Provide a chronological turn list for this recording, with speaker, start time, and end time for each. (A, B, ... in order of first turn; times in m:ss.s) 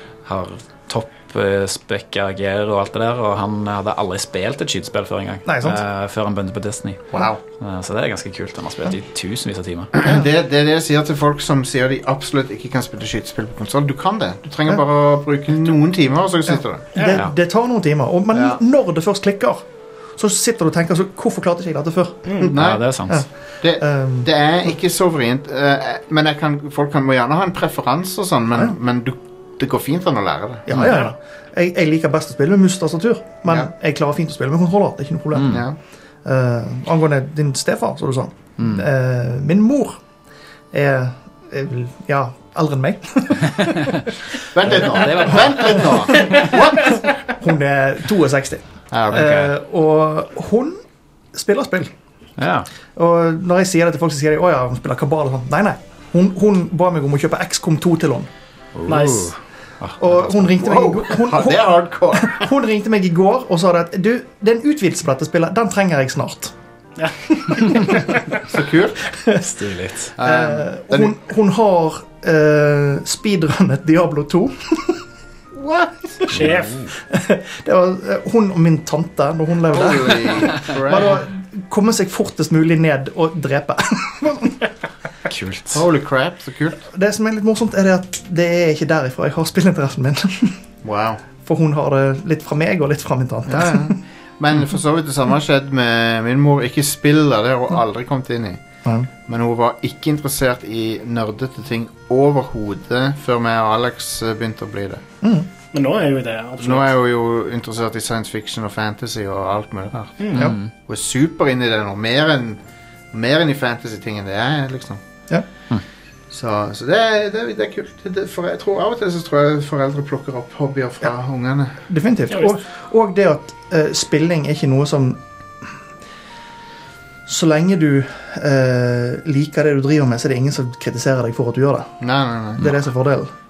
0:00.2-0:09.9 A
0:05.4-0:05.8 B
0:07.1-0:07.4 C
0:09.9-0:16.9 C
0:16.5-0:19.6 B
0:16.9-0:17.2 D
0:18.3-0:18.6 C
0:20.2-0:22.4 B
0:22.2-0:22.5 D
0:22.4-0:23.1 C
0:22.5-0:23.2 A
0:23.1-0:24.3 B
0:23.6-0:30.7 C
0:30.6-0:35.6 B
0:30.7-0:31.0 A
0:30.9-0:31.1 D
0:35.3-0:35.7 A
0:35.5-0:35.8 C
0:36.2-0:40.0 B
0:38.6-0:38.8 A
0:40.7-0:44.0 B
0:43.6-0:43.9 A
0:44.5-0:47.0 C
0:44.6-0:46.4 A
0:47.3-0:50.8 B
0:48.9-0:49.4 C
0:49.1-0:49.5 A
0:51.3-0:51.9 B
0:52.4-0:52.7 A
0:52.9-0:58.3 B
0:58.7-1:00.3 A
0:58.9-0:59.3 D
1:00.0-1:06.5 B
1:00.5-1:02.5 C
1:07.0-1:08.0 D
1:08.3-1:09.0 C
1:09.4-1:10.1 A
1:10.2-1:11.2 C
1:10.2-1:15.0 B
1:16.3-1:16.8 D
1:16.3-1:16.6 A
1:17.1-1:24.6 B
1:19.7-1:21.2 C
1:25.3-1:25.8 A
1:25.7-1:26.8 C
1:26.9-1:30.6 B
1:30.8-1:31.2 C
1:31.4-1:34.0 B
1:33.5-1:38.6 C
1:39.2-1:45.0 C
1:45.2-1:45.5 B
1:45.7-1:46.9 D
1:46.6-1:55.0 C
1:50.2-1:50.4 D
1:50.3-1:50.7 A
1:56.3-2:01.8 C
2:01.9-2:05.7 B
2:07.3-2:12.0 B
2:12.0-2:12.6 C
2:12.6-2:13.3 B